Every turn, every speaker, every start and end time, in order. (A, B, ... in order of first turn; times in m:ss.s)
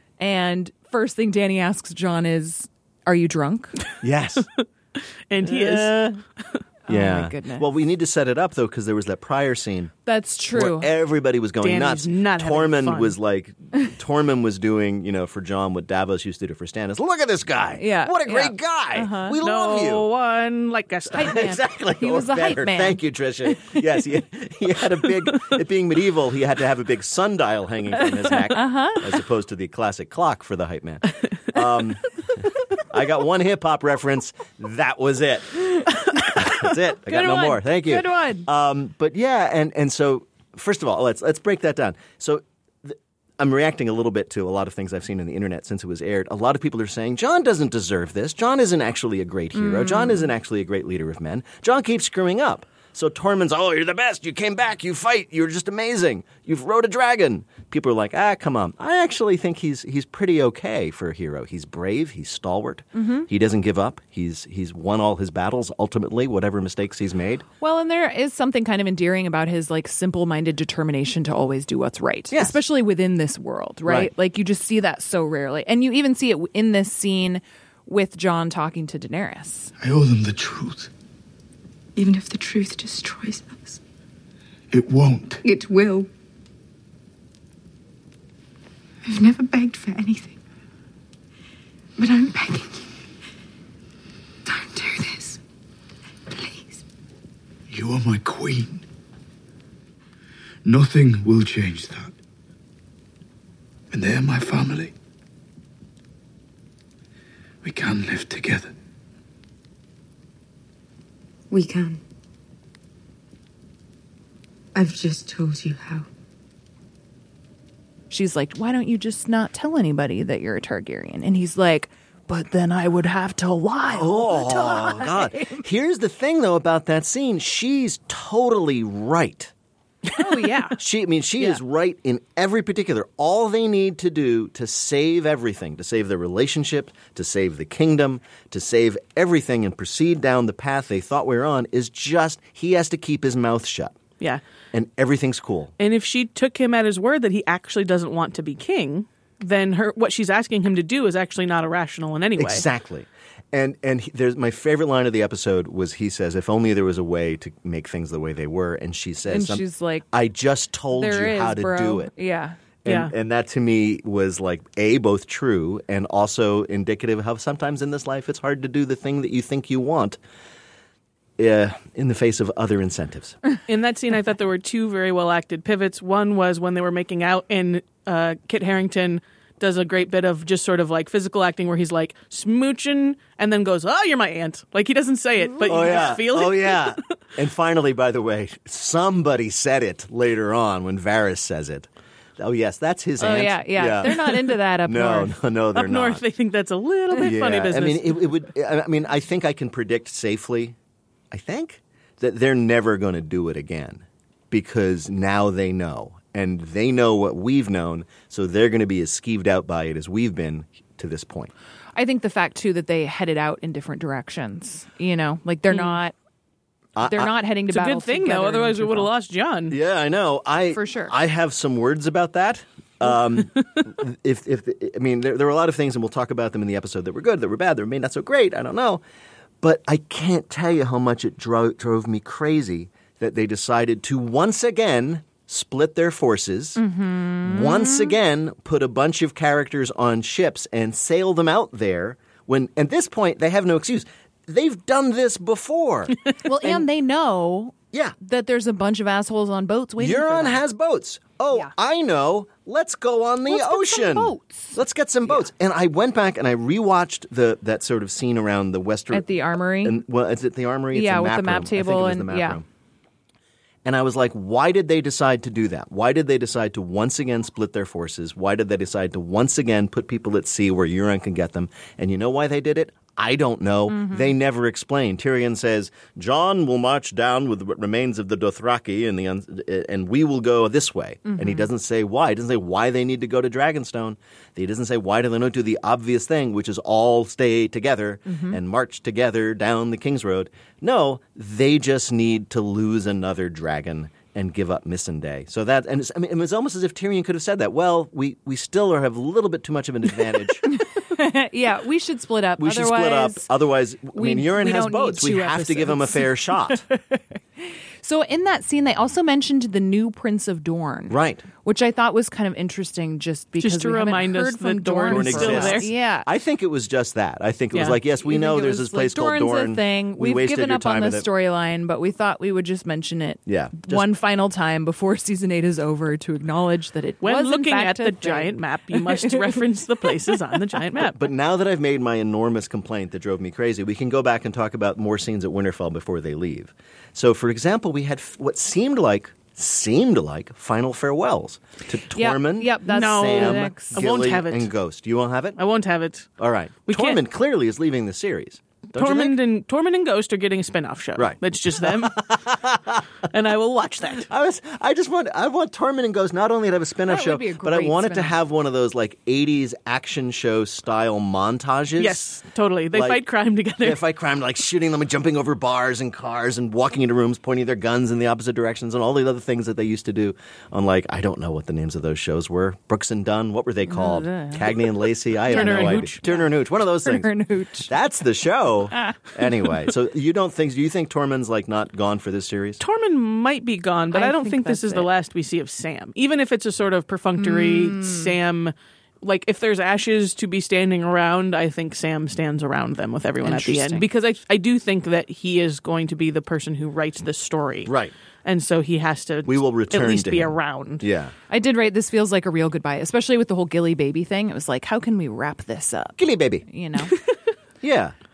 0:00.2-0:03.8 A
0:04.0-0:04.5 B
0:04.6-0:06.6 C
0:05.4-0:06.2 B
0:06.9-0:07.7 A
0:06.9-0:09.9 B
0:10.1-0:10.9 A
0:10.5-0:20.1 B
0:11.6-0:13.1 C
0:17.8-0:19.4 A
0:19.4-0:21.5 C
0:21.1-0:32.0 B
0:21.2-0:23.0 A
0:28.0-0:29.0 A
0:32.9-1:07.4 B
0:37.1-0:38.5 A
0:49.6-0:50.3 A
1:03.0-1:03.3 A
1:07.6-1:19.7 A
1:12.3-1:12.6 B
1:13.9-1:14.1 B
1:19.8-1:20.9 D
1:22.0-1:23.8 E
1:24.7-1:25.4 D
1:25.4-1:26.1 E
1:29.0-1:30.4 E
1:32.0-1:32.9 E
1:34.4-1:35.4 E
1:36.3-1:36.8 E
1:37.7-1:38.8 D
1:40.6-1:42.1 D
1:43.9-1:44.9 D
1:47.6-1:48.7 D
1:51.5-1:52.0 E
1:54.8-1:56.1 E
1:58.1-2:05.6 A
2:03.9-2:09.5 B
2:10.2-2:10.8 A
2:10.8-2:24.0 B
2:24.7-2:25.7 B
2:25.8-2:32.7 C
2:32.4-2:42.1 B
2:39.3-2:40.1 A
2:40.9-2:42.6 A
2:42.8-2:50.2 B
2:42.9-2:43.1 C
2:51.4-2:53.4 B
2:53.7-3:07.0 C
3:05.5-3:06.1 A
3:05.7-3:16.2 B
3:13.2-3:15.4 A
3:15.8-3:18.3 C
3:17.2-3:20.8 B
3:21.3-3:31.5 B
3:32.0-3:36.1 A
3:35.7-3:36.0 C
3:37.0-3:37.3 B
3:37.0-3:39.1 A
3:37.7-3:39.8 C
3:39.7-3:49.0 B
3:40.7-3:41.1 A
3:49.6-3:56.8 B
3:56.8-3:58.2 A
3:57.4-4:06.9 B
4:06.4-4:10.6 A
4:10.0-4:19.3 B
4:13.5-4:15.5 A
4:19.1-4:20.0 A
4:19.8-4:22.6 B
4:20.9-4:22.6 A
4:23.8-5:00.6 B
4:33.9-4:34.3 A
4:41.3-4:41.7 A
4:48.3-4:48.6 A
5:00.7-5:03.5 A
5:02.6-5:06.8 B
5:04.1-5:16.3 A
5:11.1-5:11.5 B
5:13.6-5:15.9 C
5:15.1-5:21.3 B
5:17.7-5:18.0 C
5:18.2-5:29.6 A
5:23.5-5:24.1 B
5:27.2-5:31.2 C
5:31.0-5:45.6 B
5:42.1-5:44.0 A
5:42.9-5:44.7 C
5:45.6-5:46.3 C
5:46.4-5:49.4 B
5:46.9-5:47.2 C
5:49.0-5:52.3 C
5:51.2-5:53.0 B
5:53.3-5:54.3 C
5:54.3-6:02.2 B
5:57.1-5:58.4 A
6:02.0-6:04.0 C
6:02.9-6:03.2 B
6:03.8-6:17.3 B
6:13.9-6:14.9 A
6:15.5-6:16.2 C
6:15.5-6:16.5 A
6:17.0-6:17.9 A
6:17.9-6:22.8 B
6:22.8-6:37.9 C
6:24.1-6:25.1 A
6:27.4-6:28.3 A
6:33.4-6:34.1 A
6:37.9-6:38.1 B
6:38.4-6:41.0 C
6:39.5-6:41.3 B
6:41.5-6:47.1 A
6:46.2-6:46.6 B
6:47.8-6:48.2 B